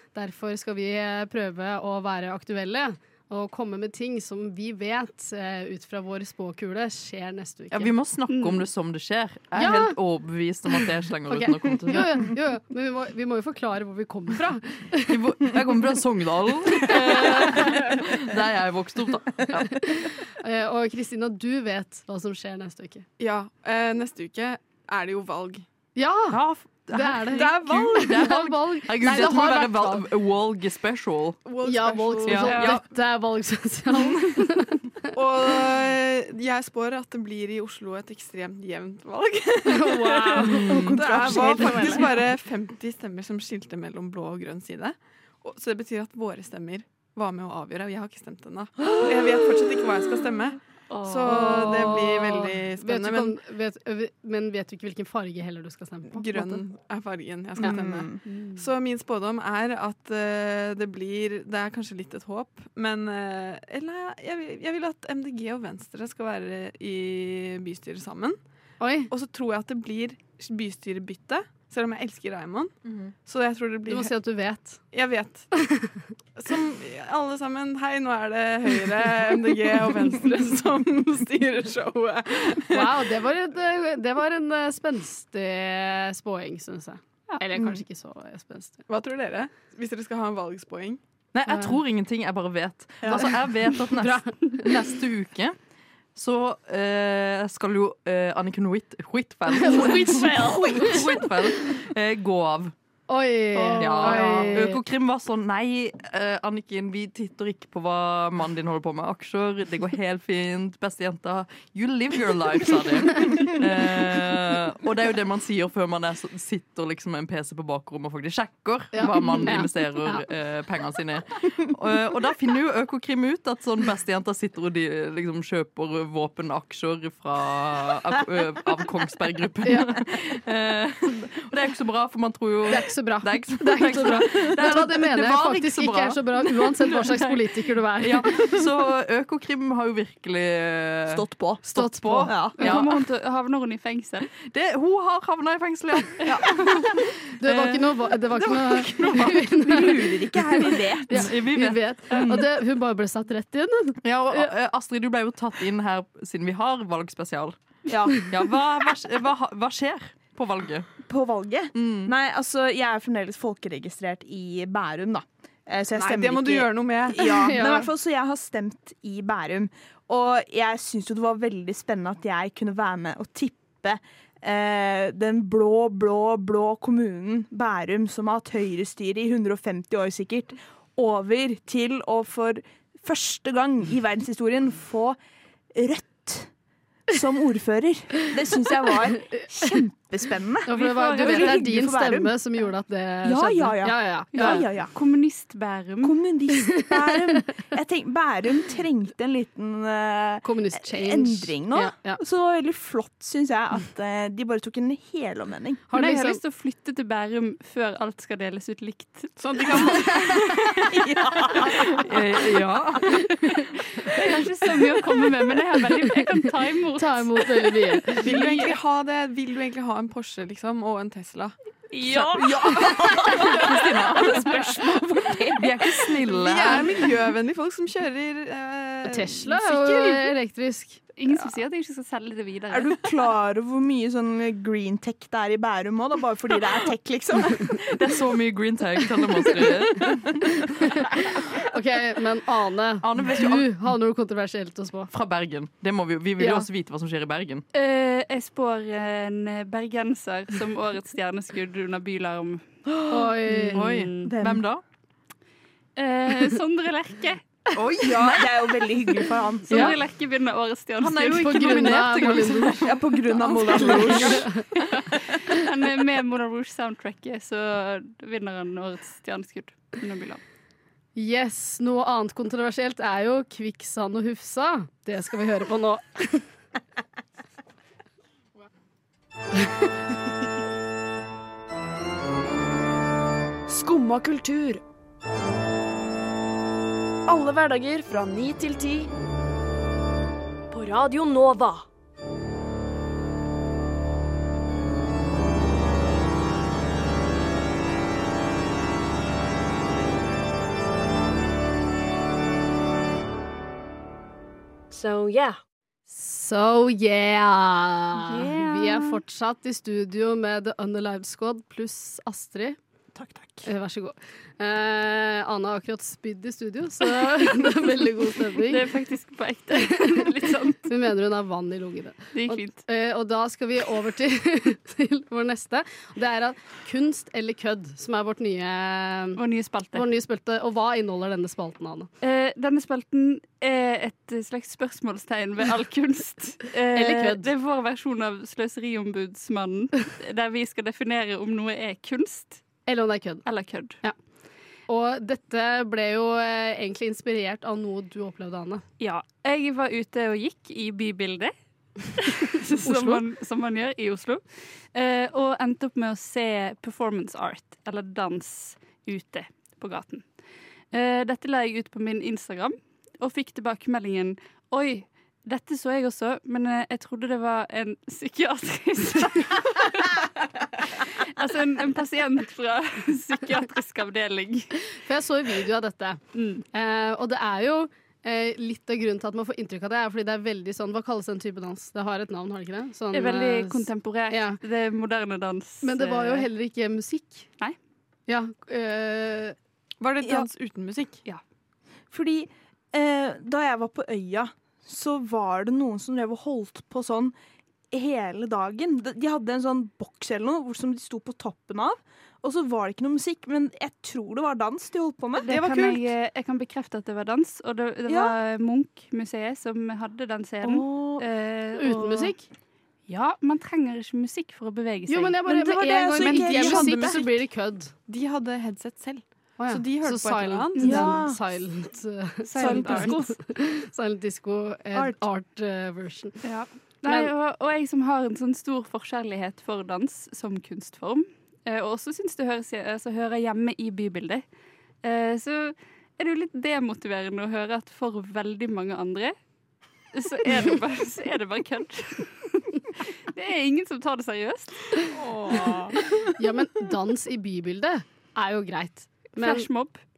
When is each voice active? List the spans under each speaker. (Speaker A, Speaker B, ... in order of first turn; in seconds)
Speaker A: 0.1-7.9, 9.6-9.9, 11.3-15.6, 16.9-17.7, 19.5-23.0, 26.0-26.4, 26.9-30.1, 31.6-34.8, 39.6-40.8, 51.0-56.6, 68.8-69.1, 73.9-74.8, 75.6-76.0, 82.7-88.8, 93.1-94.6, 99.6-101.0, 103.1-104.8, 118.9-120.2, 129.6-129.9, 132.7-138.2, 141.7-142.8, 147.4-150.1, 150.7-154.5, 167.2-167.9, 190.7-194.6, 200.4-202.2, 205.9-206.4, 217.0-218.4, 229.0-231.0, 241.7-245.1, 246.4-246.7, 253.1-253.8, 261.2-262.9, 263.4-264.6, 271.1-276.4, 306.1-312.8, 313.6-318.8, 320.8-329.4, 329.9-332.1, 336.9-337.5, 342.9-343.4, 344.9-348.8, 375.0-376.2, 376.7-384.6, 385.8-387.5, 388.3-389.6, 411.8-412.4, 415.1-417.9, 419.6-426.4, 427.1-427.3, 446.3-449.7
Speaker B: 7.7-12.3, 15.1-19.9, 26.3-31.4, 32.2-32.9, 40.4-41.0, 91.3-95.6, 96.1-102.7, 103.8-143.0, 144.4-148.0, 148.6-149.5, 151.1-152.4, 154.0-157.6, 158.2-160.9, 161.7-162.1, 212.0-213.3, 222.3-226.9, 237.4-241.3, 243.0-243.7, 245.1-247.6, 253.7-254.8, 257.7-258.6, 261.0-264.4
Speaker C: 8.3-8.6, 32.5-32.8, 142.6-144.3, 190.7-191.6, 194.3-196.2, 205.9-210.4, 213.9-218.4, 221.9-224.7, 231.2-233.1, 247.7-252.6, 253.6-254.3, 255.9-257.4, 259.7-262.0, 263.8-264.3, 265.5-270.4, 308.1-309.2, 318.6-320.9, 322.3-322.8, 329.4-330.1, 332.2-342.6, 343.4-344.0, 349.0-351.5, 352.1-354.4, 354.9-360.2, 360.9-370.5, 371.0-374.7, 376.3-376.6, 383.1-386.5, 405.4-412.3, 413.1-415.4, 420.8-421.1, 422.5-423.2, 426.4-434.4, 435.0-439.4, 440.1-445.1, 449.4-450.0
Speaker D: 23.2-25.6, 27.4-27.9, 31.4-32.6, 35.1-53.4, 56.1-68.4, 69.1-74.1, 74.9-75.5, 76.4-83.0, 88.9-91.0, 165.9-167.6, 209.4-210.4, 211.2-211.6, 218.2-221.6, 226.3-230.3, 390.0-391.2, 405.5-406.1, 416.2-417.0, 418.1-421.1, 445.1-446.0
Speaker E: 40.7-42.2, 57.6-58.2, 100.0-100.9, 103.7-104.5, 141.1-141.7, 142.2-142.8, 146.3-146.6, 148.4-151.3, 157.9-158.3, 161.0-185.2, 185.7-186.5, 187.1-192.3, 193.2-194.9, 196.0-205.8, 210.8-212.2, 222.1-223.7, 224.3-225.6, 232.7-237.9, 252.9-253.3, 254.2-254.6, 258.0-259.9, 262.8-264.5, 313.1-313.7, 392.1-397.3, 397.9-405.5, 408.1-408.4, 410.6-411.2, 415.4-417.3, 420.8-421.5, 422.6-423.3
Speaker F: 283.7-284.8, 287.3-289.1, 290.7-291.9, 304.9-305.6